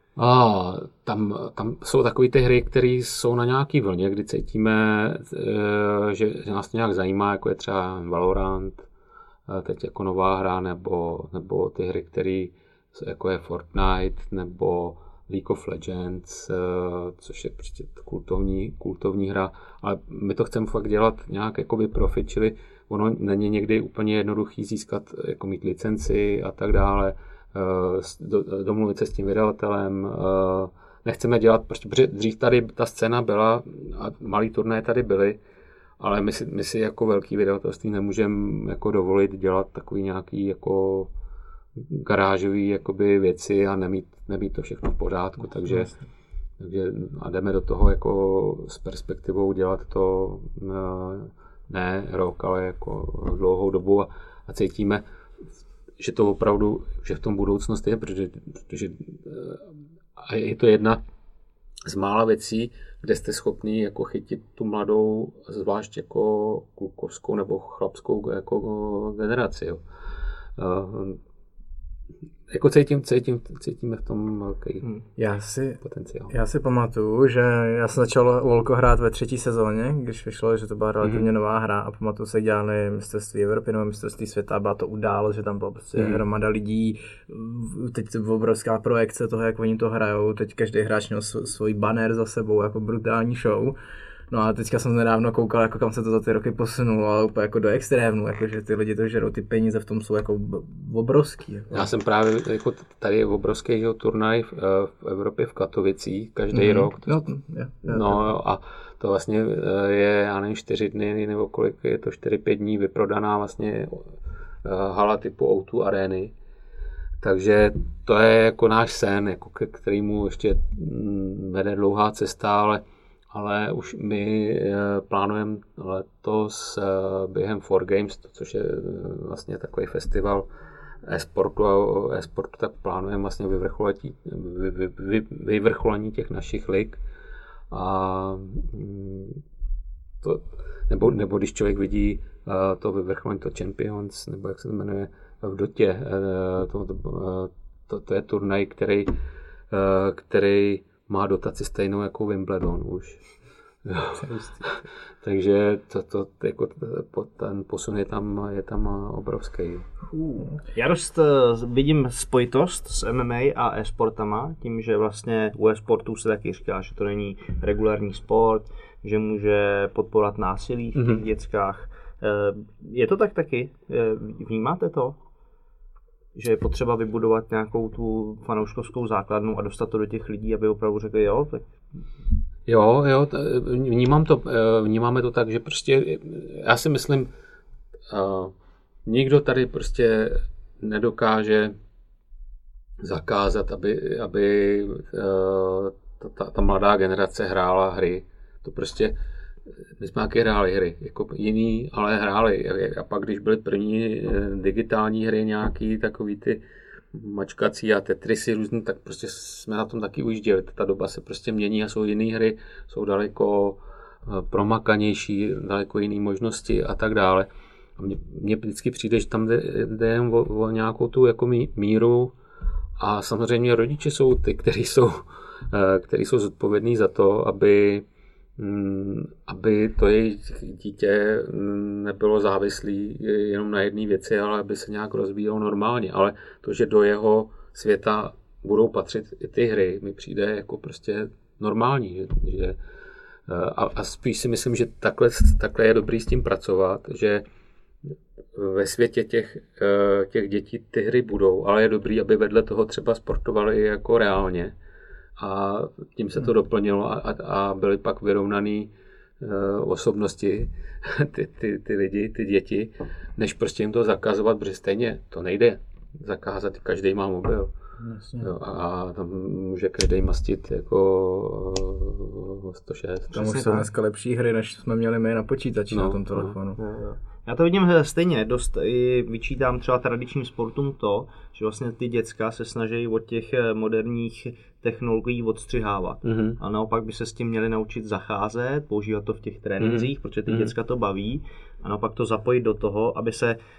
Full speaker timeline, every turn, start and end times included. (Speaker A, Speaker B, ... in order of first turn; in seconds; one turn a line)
Speaker A: 0.1-8.9
Speaker A: 9.5-35.4
Speaker A: 36.0-41.1
Speaker A: 41.8-45.9
Speaker A: 46.6-55.0
Speaker A: 56.0-61.0
Speaker A: 61.9-69.8
Speaker A: 70.6-71.2
Speaker A: 72.5-74.8
Speaker B: 75.2-93.8
Speaker A: 75.8-76.3
Speaker A: 81.0-81.3
Speaker A: 86.0-86.2
Speaker B: 94.3-101.9
Speaker A: 101.7-107.3
Speaker B: 106.5-108.2
Speaker A: 107.8-114.1
Speaker A: 114.6-116.3
Speaker A: 117.2-130.5
Speaker A: 131.0-137.0
Speaker A: 137.7-139.4
Speaker A: 140.2-149.1
Speaker A: 149.7-153.2
Speaker A: 153.8-159.9
Speaker B: 154.2-154.6
Speaker C: 160.1-175.2
Speaker A: 170.9-171.2
Speaker C: 176.3-181.7
Speaker A: 182.7-187.3
Speaker A: 188.1-188.5
Speaker A: 189.1-191.7
Speaker A: 193.0-199.2
Speaker A: 200.0-222.3
Speaker A: 223.0-228.1
Speaker A: 228.6-242.8
Speaker A: 243.5-247.4
Speaker A: 248.5-254.8
Speaker A: 255.4-267.7
Speaker B: 268.0-268.5
Speaker A: 268.4-273.7
Speaker B: 273.3-276.8
Speaker C: 273.4-273.8
Speaker A: 275.9-276.6
Speaker C: 276.8-293.6
Speaker A: 286.2-286.6
Speaker A: 289.8-290.7